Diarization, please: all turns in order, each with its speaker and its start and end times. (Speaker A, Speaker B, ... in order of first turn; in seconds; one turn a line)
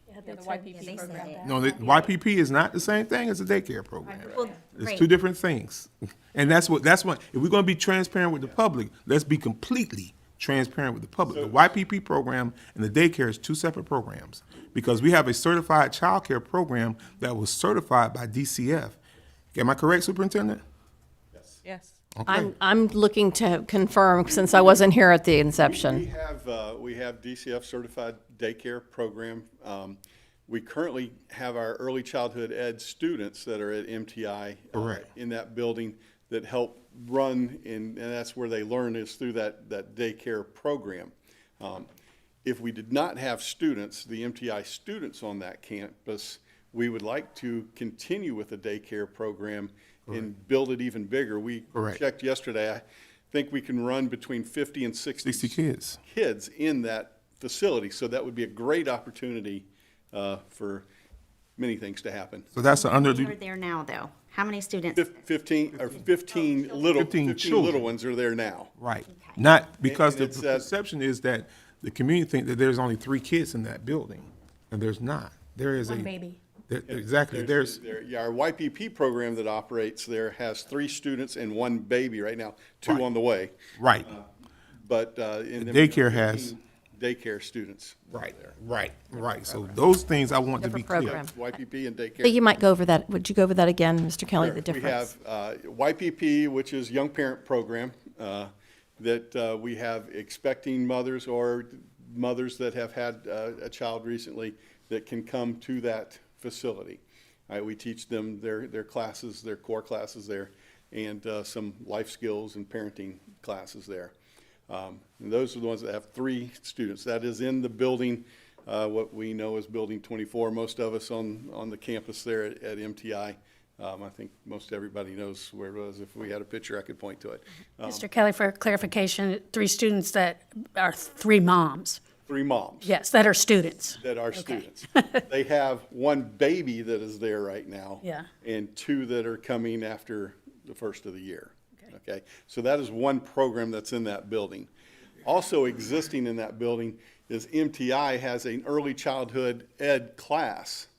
Speaker A: 0.1-0.9
Speaker B: 0.2-1.9
Speaker C: 0.7-1.7
Speaker D: 1.4-19.0
Speaker C: 4.2-5.1
Speaker E: 4.2-4.5
Speaker E: 11.3-11.7
Speaker D: 19.5-20.6
Speaker E: 21.3-21.6
Speaker B: 21.6-21.9
Speaker D: 22.1-22.5
Speaker F: 22.3-26.1
Speaker E: 25.5-41.9
Speaker D: 34.7-35.1
Speaker E: 42.4-60.9
Speaker D: 51.7-52.0
Speaker D: 55.2-56.0
Speaker E: 61.6-62.5
Speaker D: 62.5-63.4
Speaker C: 62.6-65.1
Speaker E: 65.0-68.7
Speaker D: 66.9-67.8
Speaker D: 68.8-76.1
Speaker C: 69.1-69.4
Speaker E: 69.8-70.7
Speaker A: 75.8-76.4
Speaker D: 76.7-77.8
Speaker E: 76.9-83.5
Speaker D: 83.8-84.1
Speaker E: 84.8-88.6
Speaker D: 85.6-86.5
Speaker D: 88.1-91.2
Speaker F: 90.6-91.4
Speaker E: 90.9-92.4
Speaker F: 92.2-95.1
Speaker E: 94.3-114.1
Speaker E: 114.7-128.1
Speaker A: 127.8-132.0
Speaker E: 132.2-132.9
Speaker A: 132.8-135.2
Speaker E: 134.0-144.7
Speaker A: 138.0-138.3
Speaker E: 145.2-150.9